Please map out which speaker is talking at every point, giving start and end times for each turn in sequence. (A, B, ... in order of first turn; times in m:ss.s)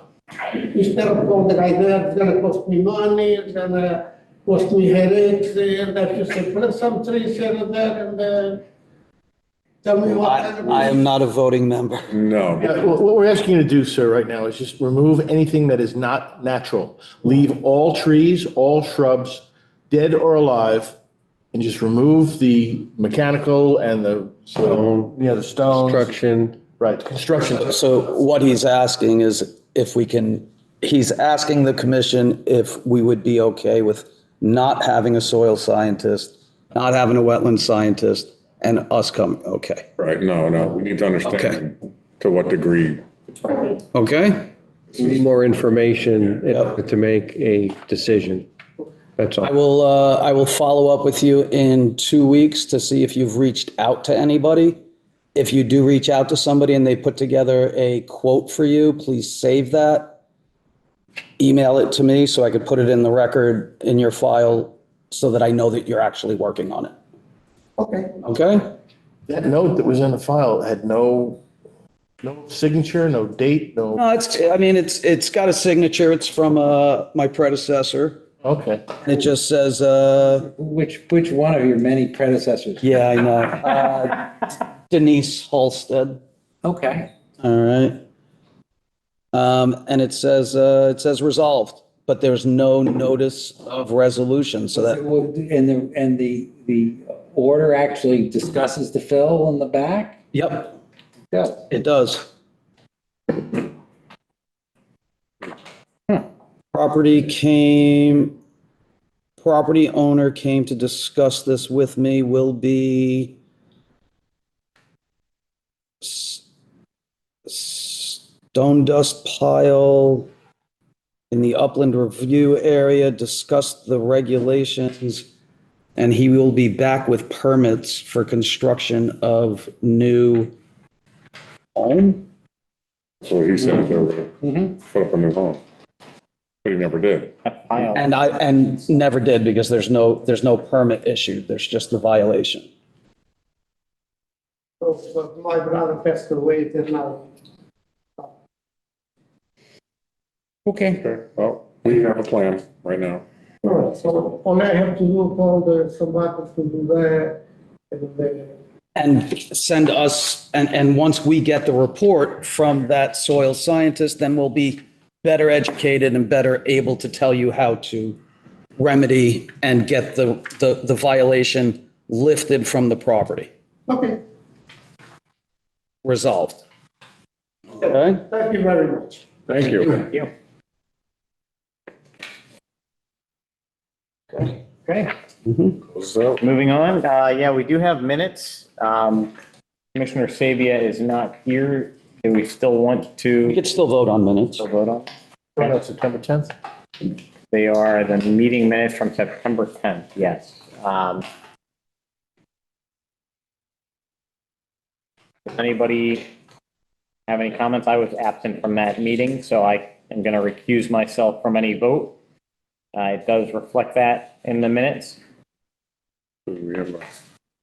0:00.5-0:08.6 A
0:09.8-0:11.0 A
0:10.0-0:12.1 B
0:12.1-0:12.8 C
0:12.6-0:21.0 D
0:21.5-0:26.2 D
0:24.6-0:25.2 E
0:25.7-0:26.6 E
0:26.7-0:27.8 D
0:27.6-0:39.9 B
0:40.0-0:43.0 C
0:41.2-0:41.6 B
0:43.9-0:44.5 B
0:45.0-0:48.5 E
0:49.2-0:49.5 E
0:49.4-0:54.8 B
0:55.4-1:00.2 B
1:01.4-1:06.9 B
1:07.8-1:08.2 A
1:08.2-1:08.7 B
1:09.3-1:11.4 D
1:12.2-1:14.0 D
1:14.0-1:18.2 B
1:18.4-1:18.9 D
1:19.0-1:20.5 B
1:20.4-1:22.9 F
1:22.8-1:26.2 B
1:26.6-1:27.1 F
1:27.4-1:28.0 B
1:29.3-1:35.0 B
1:34.8-1:40.2 F
1:40.3-1:40.8 B
1:41.3-1:41.6 F
1:41.7-1:42.3 B
1:46.7-1:48.4 B
1:49.4-1:53.4 B
1:56.0-1:56.4 B
1:57.5-2:00.3 B
2:01.3-2:05.3 B
2:06.0-2:10.5 B
2:11.8-2:12.2 B
2:13.2-2:15.6 C
2:16.6-2:17.3 C
2:17.4-2:18.1 G
2:17.9-2:22.7 B
2:24.8-2:27.3 A
2:30.7-2:31.0 F
2:31.0-2:33.2 C
2:33.6-2:38.6 A
2:39.0-2:48.2 B
2:48.8-2:53.5 B
2:53.9-2:54.2 A
2:56.0-2:56.6 B
2:57.8-2:58.2 B
2:58.3-2:59.2 A
2:59.5-3:00.1 C
3:04.8-3:05.1 G
3:05.5-3:05.8 B
3:05.9-3:06.4 C
3:06.4-3:09.3 G
3:10.0-3:13.6 G
3:13.4-3:14.6 B
3:14.6-3:15.8 G
3:15.6-3:16.5 D
3:17.5-3:21.2 G
3:25.5-3:26.2 G
3:27.3-3:32.2 G
3:33.0-3:35.2 G
3:36.5-3:37.0 C